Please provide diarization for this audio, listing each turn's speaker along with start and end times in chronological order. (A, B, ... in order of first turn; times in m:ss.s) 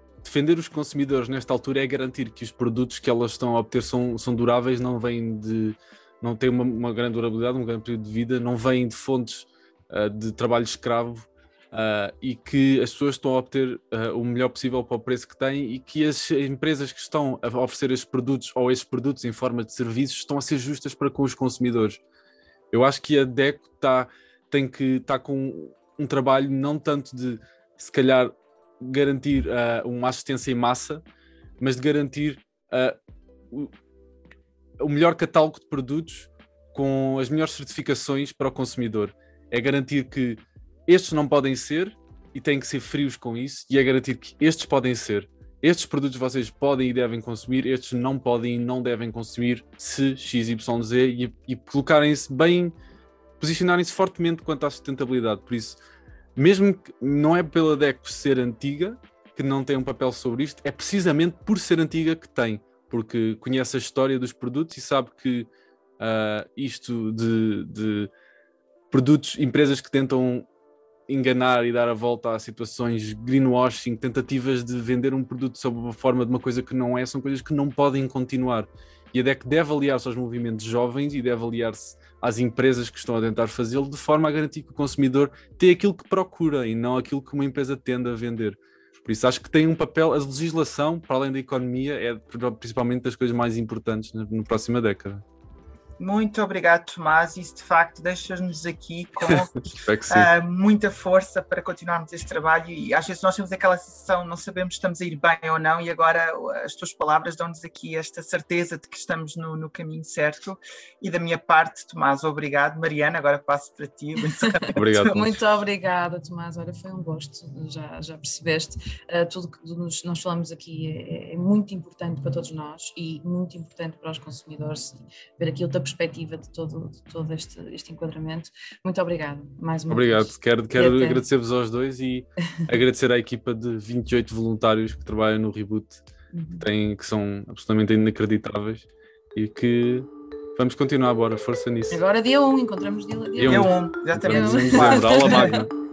0:00.2-0:22.0 A
0:22.7-0:31.0 A
0:31.6-0:33.0 A
0:34.8-0:52.7 A
0:53.4-0:55.8 A
0:56.4-1:08.1 A
1:08.9-1:10.5 A
1:11.1-1:35.2 A
1:36.0-1:55.0 B
1:39.3-1:40.3 A
1:54.7-1:55.4 A
1:55.0-2:11.2 C
2:09.9-2:16.0 A
2:16.3-2:16.6 C
2:16.6-2:22.0 A
2:21.9-2:25.6 C
2:23.4-2:25.7 A
2:23.4-2:25.6 B